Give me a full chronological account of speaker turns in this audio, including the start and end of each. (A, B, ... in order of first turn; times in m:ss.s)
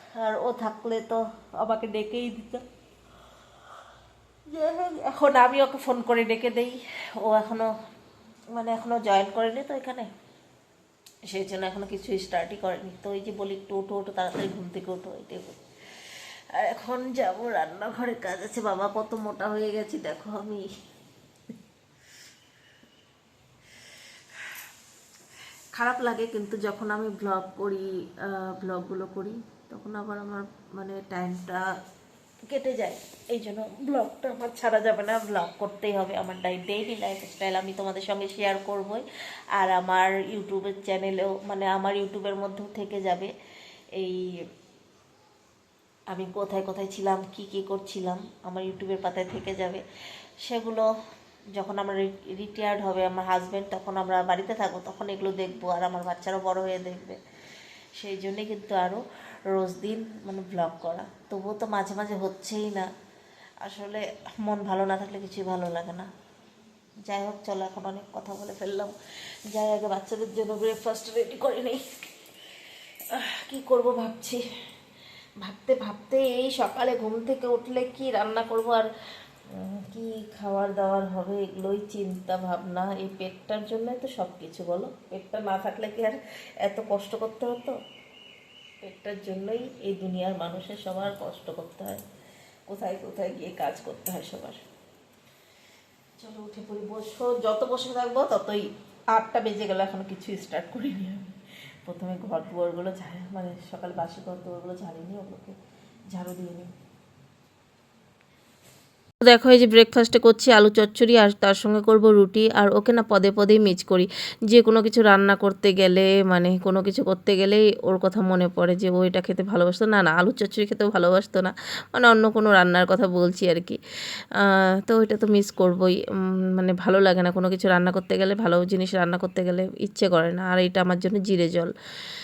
0:00.2-0:02.6 A
0:04.5-0:07.7 A
0:08.5-0:10.1 A
0:11.3-0:20.7 A
0:25.7-0:31.7 A
0:32.5-0:43.3 A
0:44.0-0:44.4 A
0:46.1-0:49.8 A
0:50.4-0:50.9 A
0:51.6-0:57.2 A
0:58.0-1:02.9 A
1:03.6-1:06.1 A
1:07.0-1:09.0 A
1:09.5-1:12.0 A
1:13.1-1:14.4 A
1:15.4-1:18.9 A
1:19.5-1:27.8 A
1:28.8-1:32.0 A
1:32.7-1:34.6 A
1:36.2-1:45.6 A
1:46.1-1:46.7 A
1:49.2-2:03.8 A
2:04.3-2:11.7 A